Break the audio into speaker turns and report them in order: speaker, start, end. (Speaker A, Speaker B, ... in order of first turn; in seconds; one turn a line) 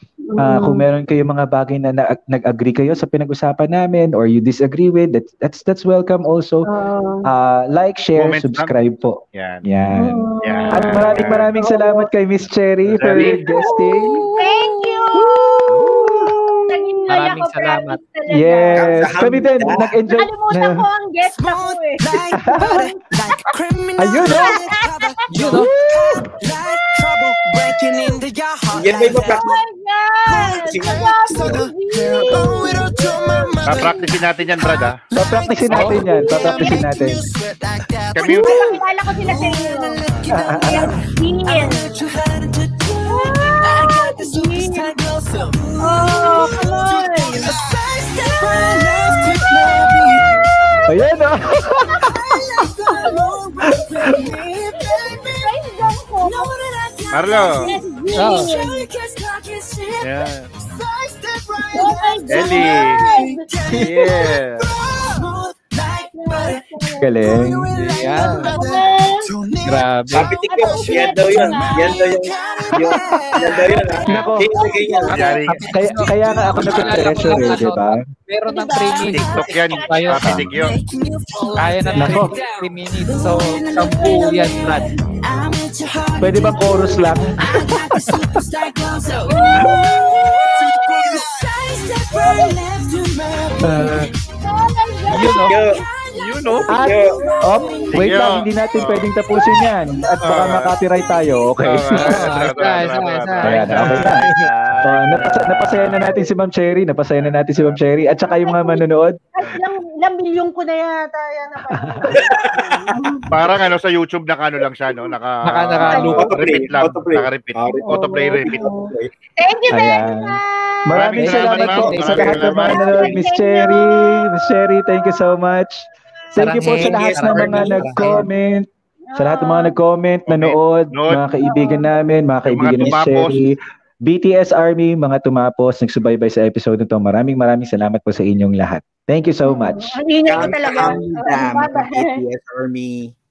Speaker A: 0.2-0.8
Speaker B: 0.4-6.7
Speaker A: 6.7-7.2
Speaker B: 7.2-14.3
Speaker C: 8.2-8.8
Speaker C: 9.3-9.6
Speaker A: 9.9-12.1
Speaker C: 10.4-11.5
Speaker C: 12.8-13.5
Speaker A: 13.2-15.3
Speaker D: 14.1-15.2
Speaker B: 15.1-16.8
Speaker A: 16.7-19.1
Speaker E: 17.1-18.0
Speaker B: 18.3-20.8
Speaker F: 18.8-19.9
Speaker A: 19.8-22.8
Speaker D: 21.3-29.5
Speaker B: 22.3-22.9
Speaker B: 24.0-24.6
Speaker A: 24.2-25.0
Speaker B: 25.5-26.0
Speaker F: 28.7-29.5
Speaker A: 29.3-34.1
Speaker D: 30.3-74.3
Speaker F: 30.6-31.6
Speaker C: 33.7-35.0
Speaker B: 35.1-37.2
Speaker A: 35.3-37.0
Speaker E: 35.7-36.0
Speaker C: 38.1-38.6
Speaker A: 38.2-42.0
Speaker B: 40.3-41.0
Speaker A: 43.1-44.9
Speaker A: 45.8-47.5
Speaker A: 48.6-49.9
Speaker B: 50.9-52.4
Speaker A: 51.8-52.1
Speaker A: 52.9-53.3
Speaker B: 53.7-54.2
Speaker A: 54.0-56.5
Speaker C: 57.1-57.7
Speaker A: 57.5-58.9
Speaker E: 58.1-58.5
Speaker C: 60.0-60.5
Speaker A: 61.7-63.4
Speaker C: 62.3-63.0
Speaker C: 63.7-64.7
Speaker A: 66.1-67.2
Speaker B: 67.0-67.7
Speaker E: 68.0-68.5
Speaker A: 68.3-69.3
Speaker E: 69.6-70.3
Speaker F: 70.1-75.3
Speaker A: 70.3-75.4
Speaker B: 74.1-74.5
Speaker C: 75.1-75.6
Speaker D: 75.7-77.6
Speaker E: 75.7-80.5
Speaker B: 75.7-78.0
Speaker A: 78.5-80.1
Speaker D: 78.8-98.2
Speaker C: 79.1-80.7
Speaker B: 80.2-80.5
Speaker E: 81.6-84.9
Speaker B: 82.0-82.4
Speaker A: 83.8-84.9
Speaker B: 86.2-87.4
Speaker A: 86.6-86.9
Speaker A: 89.3-91.2
Speaker A: 92.1-92.6
Speaker B: 93.6-94.1
Speaker A: 93.8-95.5
Speaker E: 95.1-95.5
Speaker F: 95.5-95.8
Speaker C: 96.2-96.8
Speaker B: 96.7-102.3
Speaker F: 96.8-97.1
Speaker A: 96.8-98.0
Speaker C: 97.9-99.1
Speaker D: 99.3-100.5
Speaker C: 100.2-100.7
Speaker C: 101.6-106.2
Speaker E: 101.9-104.4
Speaker B: 103.4-104.3
Speaker B: 104.8-109.2
Speaker A: 108.3-113.2
Speaker B: 111.7-112.2
Speaker F: 112.1-112.9
Speaker C: 113.3-118.7
Speaker E: 115.5-116.4
Speaker A: 115.8-116.2
Speaker F: 116.1-119.1
Speaker A: 117.8-120.9
Speaker B: 119.7-139.9
Speaker C: 120.9-123.2
Speaker F: 121.2-122.7
Speaker E: 121.3-122.3
Speaker A: 122.7-125.2
Speaker E: 126.4-128.3
Speaker F: 126.5-128.3
Speaker A: 129.1-129.8
Speaker C: 130.3-131.2
Speaker A: 131.4-131.9
Speaker C: 132.5-133.5
Speaker F: 132.8-133.4
Speaker A: 139.5-142.1
Speaker F: 140.3-143.2